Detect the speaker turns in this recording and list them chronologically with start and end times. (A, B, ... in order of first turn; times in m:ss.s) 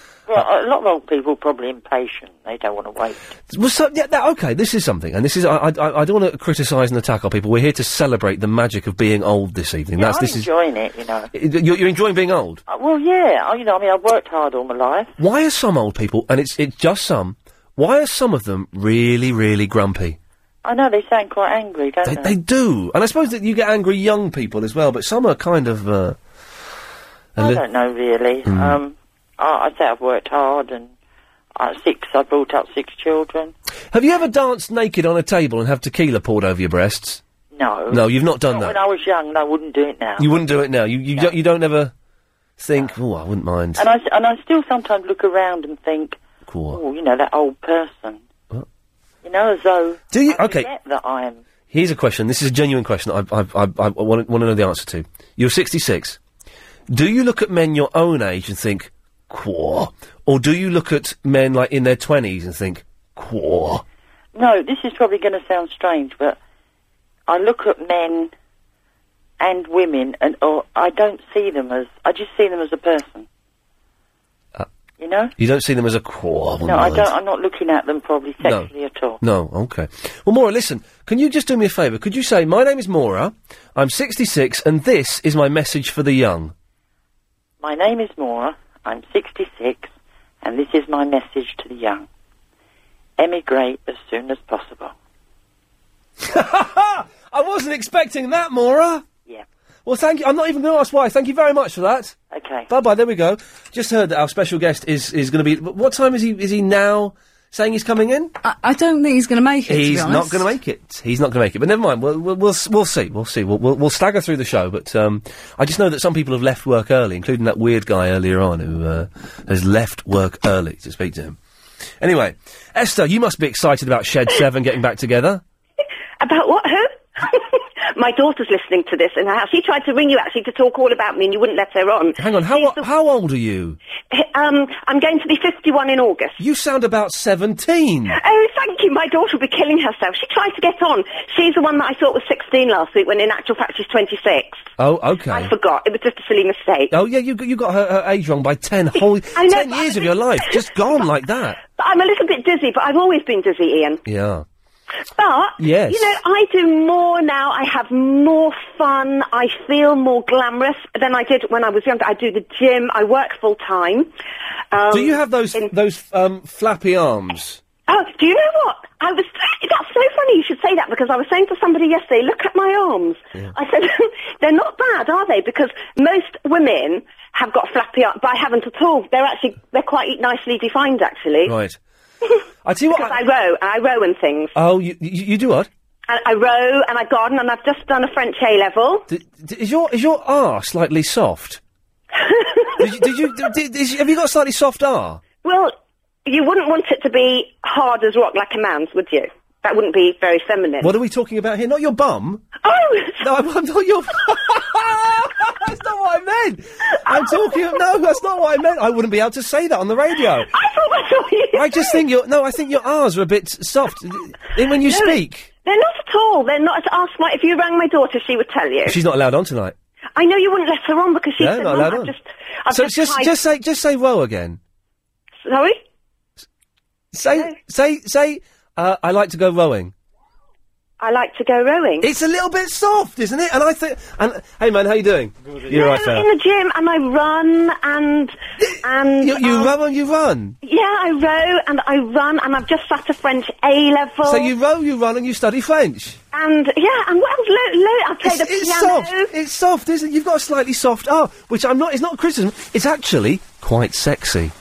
0:00.3-0:03.3 A
0:03.5-0:10.5 B
0:10.0-0:11.3 A
0:11.3-0:12.6 B
0:12.7-0:15.1 A
0:15.2-0:20.2 B
0:20.6-0:22.4 A
0:22.0-0:26.2 B
0:27.4-0:27.6 B
0:27.4-0:30.9 A
0:28.4-0:28.8 B
0:31.6-0:33.5 A
0:33.9-0:37.2 B
0:37.5-0:40.3 A
0:37.9-0:38.8 B
0:40.2-0:41.9 B
0:42.6-0:43.8 B
0:43.8-0:46.2 A
0:46.4-0:46.8 B
0:46.7-0:48.2 A
0:49.2-0:51.4 A
0:50.1-0:50.7 B
0:51.7-0:56.2 B
0:56.9-1:03.8 B
1:04.3-1:06.4 A
1:07.3-1:08.3 A
1:09.4-1:13.2 A
1:15.0-1:15.3 A
1:15.4-1:17.1 B
1:16.6-1:19.2 A
1:18.4-1:18.7 B
1:19.2-1:26.5 B
1:27.6-1:29.9 A
1:30.4-1:32.0 A
1:33.2-1:34.9 A
1:36.2-1:39.0 B
1:39.8-1:42.1 B
1:42.3-1:42.7 A
1:42.7-1:48.3 B
1:48.4-1:50.5 C
1:49.7-2:01.4 B
2:02.0-2:05.4 B
2:06.2-2:07.4 D
2:07.9-2:12.8 D
2:12.2-2:13.8 B
2:14.1-2:16.4 D
2:16.4-2:18.2 B
2:18.1-2:24.6 D
2:24.8-2:25.5 B
2:25.3-2:26.9 D
2:26.9-2:31.6 B
2:29.3-2:30.5 D
2:31.7-2:34.0 D
2:34.0-2:34.4 B
2:35.2-2:44.1 D
2:35.6-2:36.1 B
2:44.7-2:45.7 D
2:44.9-2:47.6 B
2:47.9-3:01.5 D
3:01.4-3:01.8 B
3:02.6-3:03.2 B
3:02.9-3:04.5 D
3:04.5-3:05.7 B
3:06.1-3:09.0 D
3:09.1-3:11.6 B
3:12.3-3:12.9 D
3:12.8-3:15.2 B
3:15.4-3:15.7 D
3:16.2-3:20.9 D
3:20.8-3:22.4 B
3:22.6-3:23.2 D
3:23.2-3:30.5 B
3:27.1-3:27.5 D
3:30.5-3:32.0 D
3:31.5-3:35.5 B
3:34.8-3:39.0 D
3:38.8-3:39.7 B
3:40.2-3:43.3 D
3:41.4-3:42.1 B
3:42.7-3:44.6 B
3:45.4-3:45.8 D
3:47.1-3:49.9 B
3:51.0-3:52.0 D
3:52.0-3:56.3 B
3:55.7-3:59.7 D
3:58.6-4:00.6 B
4:00.6-4:04.5 D
4:04.3-4:06.2 B
4:06.3-4:09.3 D
4:08.2-4:14.5 B